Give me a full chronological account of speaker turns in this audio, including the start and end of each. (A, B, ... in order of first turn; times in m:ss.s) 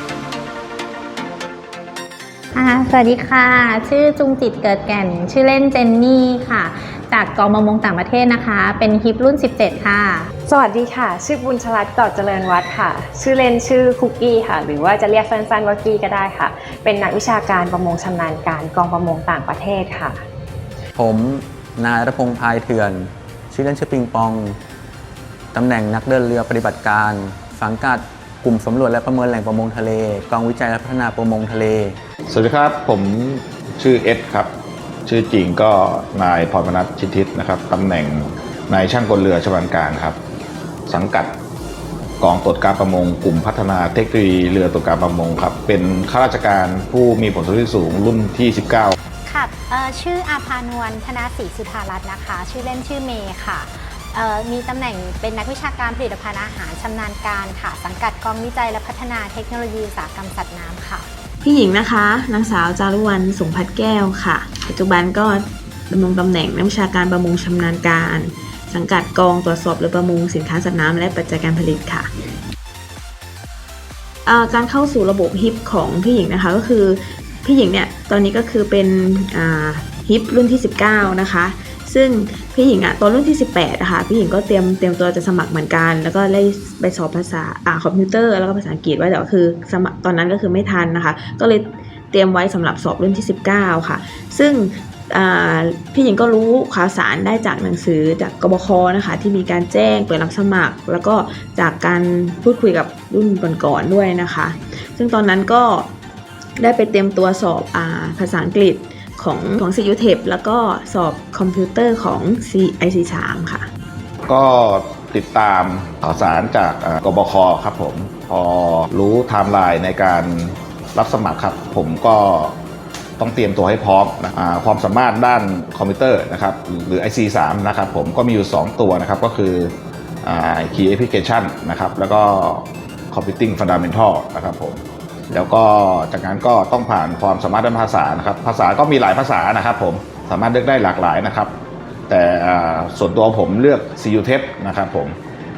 0:02.5-0:10.3 A
0:10.5-0:20.2 B
0:21.0-0:24.6 C
0:25.5-0:32.0 C
0:32.3-0:34.5 D
0:35.0-0:40.2 D
0:40.9-0:41.4 D
0:42.2-0:48.9 D
0:49.2-1:01.1 E
1:01.4-1:12.1 F
1:14.2-1:45.9 F
1:46.6-1:53.7 F
1:54.3-2:02.6 D
2:03.2-2:21.5 D
2:22.1-2:25.2 D